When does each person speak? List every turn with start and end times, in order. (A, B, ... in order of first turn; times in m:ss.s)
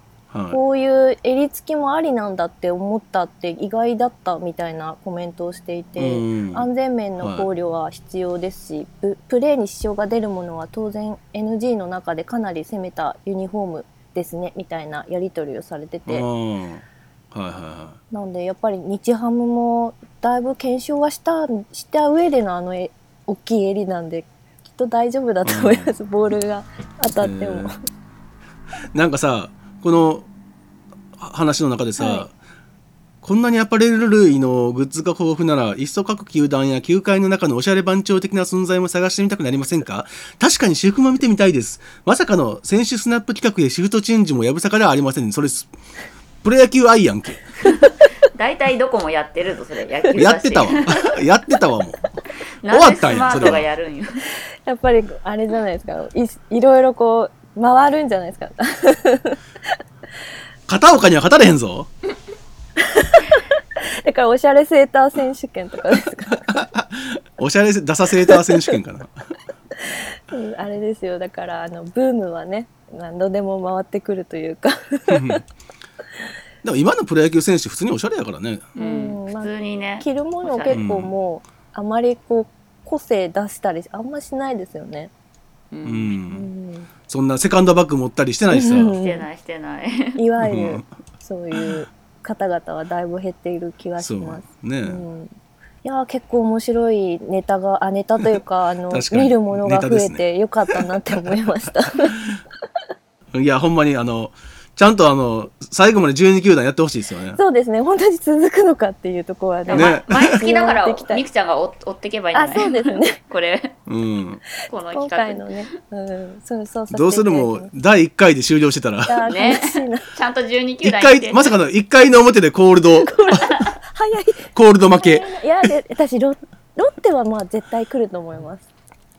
0:00.3-0:00.6 A
0:00.5-0:16.2 B
0:06.0-0:06.7 A
0:07.2-0:07.5 A
0:16.1-0:18.0 A
0:18.1-0:27.8 B
0:25.4-0:25.9 A
0:27.2-0:27.7 A
0:28.9-0:30.3 A
0:31.2-0:32.3 A
0:32.0-0:32.3 B
0:33.2-0:45.7 A
0:46.4-0:47.4 A
0:48.3-0:51.1 C
0:50.2-0:52.0 A
0:52.6-0:54.2 C
0:52.7-0:53.6 A
0:54.6-0:59.4 B
1:00.7-1:01.9 A
1:02.8-1:06.6 B
1:06.5-1:09.1 A
1:08.3-1:08.7 B
1:10.3-1:15.4 B
1:15.1-1:15.4 A
1:16.6-1:18.7 A
1:18.8-1:20.8 C
1:18.8-1:25.1 B
1:20.7-1:21.1 A
1:25.7-1:26.1 C
1:25.8-1:26.5 A
1:26.3-1:26.9 B
1:27.1-1:29.0 A
1:28.5-1:29.3 B
1:29.0-1:30.2 C
1:30.2-1:35.3 B
1:30.4-1:30.8 A
1:34.0-1:35.0 A
1:35.8-1:42.2 B
1:38.9-1:41.3 A
1:42.1-1:42.4 A
1:43.3-1:47.4 A
1:47.4-1:51.2 B
1:49.6-1:53.7 C
1:49.7-1:50.4 A
1:52.3-1:53.2 B
1:53.9-1:54.4 A
1:54.7-1:55.5 C
1:54.9-1:57.7 B
1:56.9-1:59.2 A
1:59.0-2:00.1 B
1:59.3-2:01.5 C
2:00.8-2:03.4 A
2:03.0-2:08.6 B
2:04.5-2:05.2 A